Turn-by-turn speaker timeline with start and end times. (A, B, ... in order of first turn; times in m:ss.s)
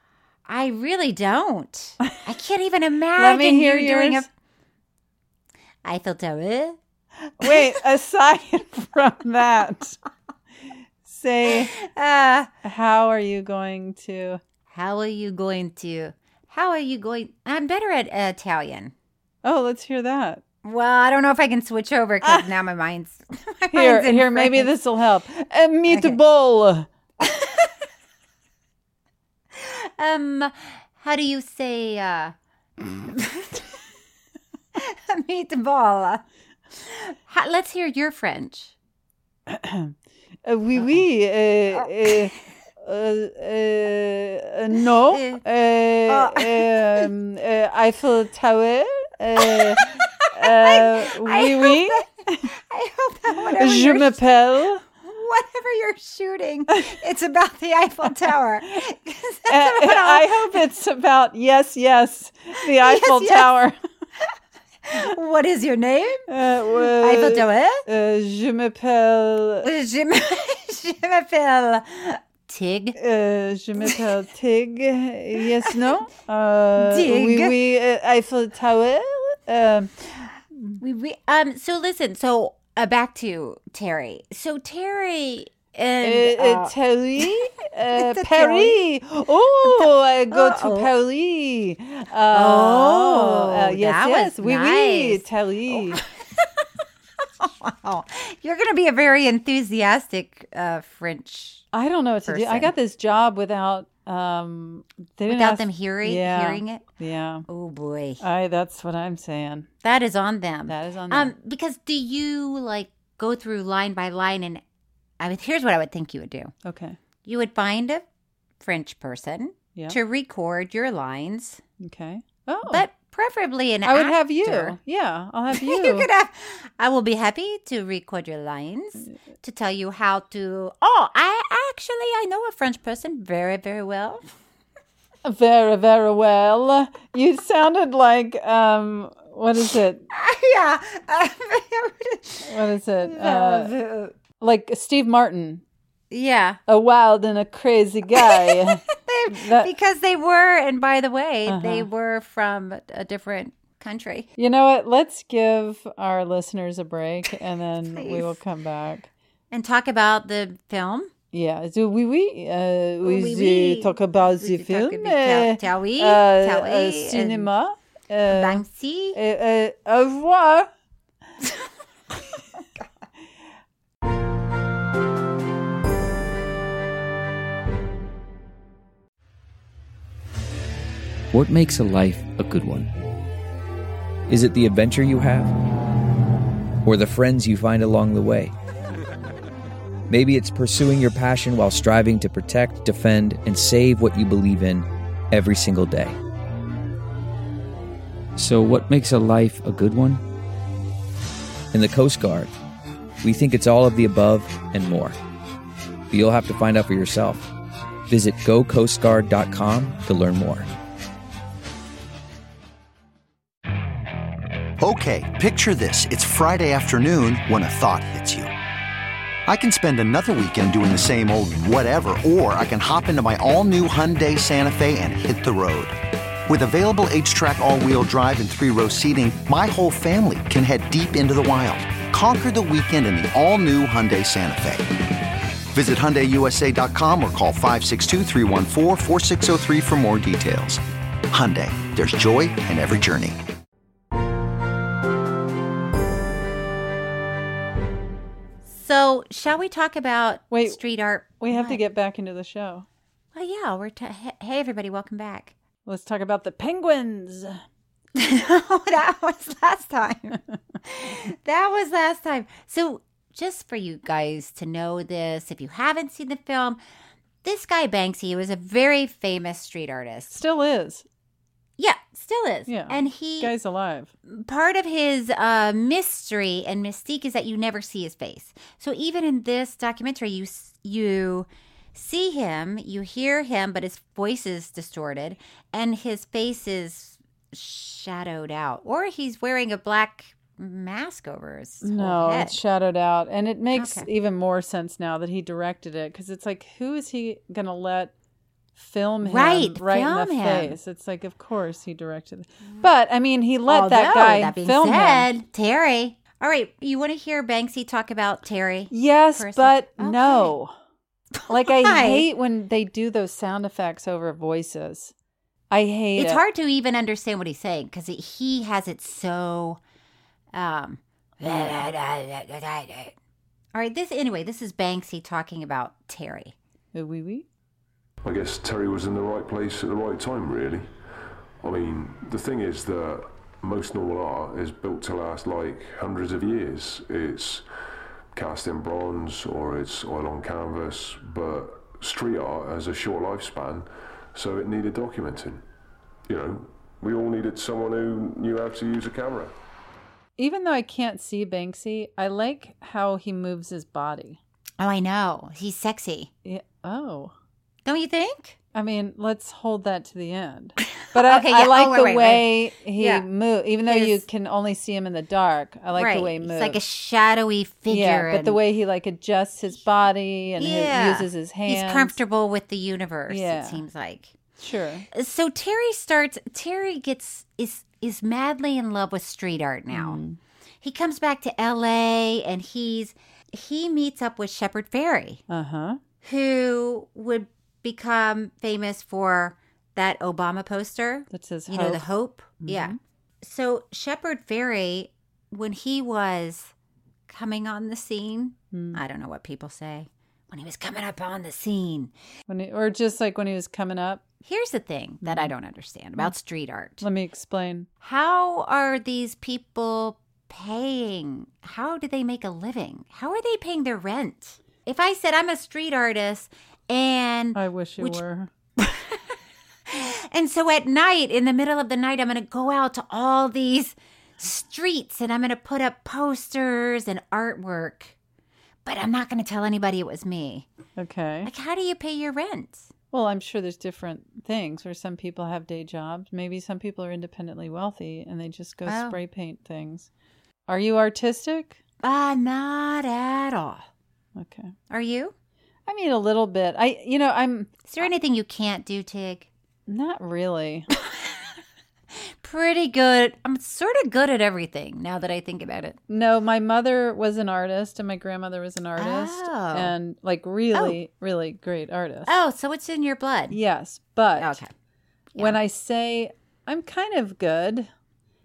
0:00.5-0:04.3 A
0:03.2-0:04.3 B
0:05.8-0:06.8 A
0:07.4-0:10.0 B
0:11.0-0:11.7 B
0:11.5-0:12.5 A
0:12.6-0:14.4 B
0:14.7-0:18.9 A
0:19.4-0:20.4 B
0:20.6-0:24.7 A
0:22.2-0:22.5 B
0:23.7-0:26.9 B
0:25.9-0:26.2 A
0:27.2-0:27.7 A
0:29.5-0:32.3 A
0:33.0-0:33.7 A
0:34.8-0:36.2 A
0:36.8-0:38.7 A
0:39.5-0:52.5 B
0:45.1-0:45.4 A
0:46.1-0:47.1 A
0:49.4-0:54.2 A
0:53.5-0:54.8 B
0:55.0-1:00.6 A
0:59.5-1:03.8 B
1:02.6-1:03.5 A
1:04.8-1:06.3 A
1:06.3-1:09.7 B
1:07.0-1:07.8 A
1:09.6-1:13.0 A
1:13.0-1:19.9 B
1:16.8-1:17.6 A
1:20.8-1:27.3 A
1:26.0-1:36.0 B
1:27.9-1:28.8 A
1:29.6-1:30.9 A
1:32.3-1:36.6 A
1:37.4-1:41.7 A
1:41.7-1:47.4 B
1:42.3-1:42.7 A
1:45.3-1:46.8 A
1:47.5-1:48.2 A
1:48.2-1:49.7 B
1:49.8-1:54.6 A
1:50.7-1:51.3 B
1:55.2-1:56.5 A
1:56.6-1:57.0 B
1:57.2-1:58.0 A
1:58.6-2:01.6 A
2:01.8-2:02.8 B
2:02.7-2:04.8 A
2:03.8-2:06.1 B
2:05.5-2:14.3 A
2:15.2-2:20.1 B
2:20.1-2:22.5 A
2:22.4-2:23.7 B
2:23.0-2:24.2 A
2:24.4-2:25.6 B
2:26.1-2:26.6 A
2:26.7-2:29.7 B
2:28.2-2:34.3 A
2:31.5-2:31.9 B
2:34.4-2:39.1 B
2:37.9-2:38.4 A
2:39.5-2:41.1 A
2:41.3-2:50.7 B
2:43.0-2:47.5 A
2:48.3-2:49.2 A
3:01.3-3:02.9 C
3:04.3-3:05.5 C
3:06.8-3:08.5 C
3:10.1-3:16.2 C
3:18.4-3:20.2 C
3:21.7-3:22.5 C
3:23.2-3:25.2 C
3:26.1-3:27.5 C
3:28.1-3:30.7 C
3:34.8-3:38.5 D
3:39.5-3:54.9 D
3:55.7-4:03.4 D
4:08.7-4:11.8 A
4:10.5-4:10.8 B
4:11.4-4:12.9 B
4:13.3-4:15.5 A
4:15.8-4:17.6 B
4:18.2-4:26.8 A
4:27.4-4:30.4 A
4:30.3-4:31.1 B
4:31.8-4:33.5 A
4:32.7-4:34.1 B
4:34.3-4:52.6 A
4:51.8-4:58.1 B
4:53.8-4:54.1 A
4:58.8-5:05.3 B
4:59.2-5:00.8 A
5:03.7-5:10.5 A
5:08.9-5:10.7 B
5:11.4-5:12.3 A
5:11.5-5:15.1 B
5:15.7-5:16.4 B
5:16.2-5:19.8 A
5:20.5-5:23.2 A
5:23.7-5:26.6 A
5:26.9-5:27.5 B
5:28.2-5:30.9 E
5:31.6-5:37.6 E
5:38.3-5:45.6 E
5:46.3-5:49.5 E
5:50.4-5:54.4 B
5:54.8-5:56.3 A
5:56.4-5:57.3 B
5:57.9-5:58.6 A
5:58.7-6:06.8 B
6:00.9-6:03.3 A
6:03.9-6:04.2 A
6:05.9-6:08.6 A
6:07.9-6:12.2 B
6:10.6-6:14.4 A
6:13.3-6:13.8 B
6:14.6-6:15.1 B
6:15.1-6:20.2 A
6:19.9-6:20.4 B
6:20.8-6:25.4 A
6:25.5-6:26.0 B
6:26.2-6:36.7 A
6:31.3-6:32.1 B
6:32.6-6:33.0 B
6:37.3-6:42.1 A
6:38.7-6:39.0 B
6:42.5-6:44.2 B
6:44.4-6:47.0 A
6:45.2-6:45.5 B
6:47.0-6:47.9 B
6:48.0-6:58.2 A
6:57.6-6:58.5 B
6:58.8-6:59.2 A
6:59.9-7:08.2 A
7:08.8-7:10.7 A
7:11.0-7:11.5 B
7:11.4-7:12.9 A
7:13.1-7:20.1 B
7:18.9-7:19.2 A
7:20.7-7:21.8 B
7:22.0-7:23.9 A
7:24.4-7:24.7 B
7:24.9-7:25.3 A
7:25.9-7:27.7 B
7:27.9-7:29.5 A
7:29.9-7:30.9 B
7:31.0-7:31.4 A
7:32.4-7:36.0 A
7:36.1-7:42.3 B
7:39.0-7:39.9 A
7:42.3-7:43.6 A
7:43.5-7:44.6 B
7:44.4-7:44.7 A
7:45.3-7:45.6 A
7:45.4-7:47.9 B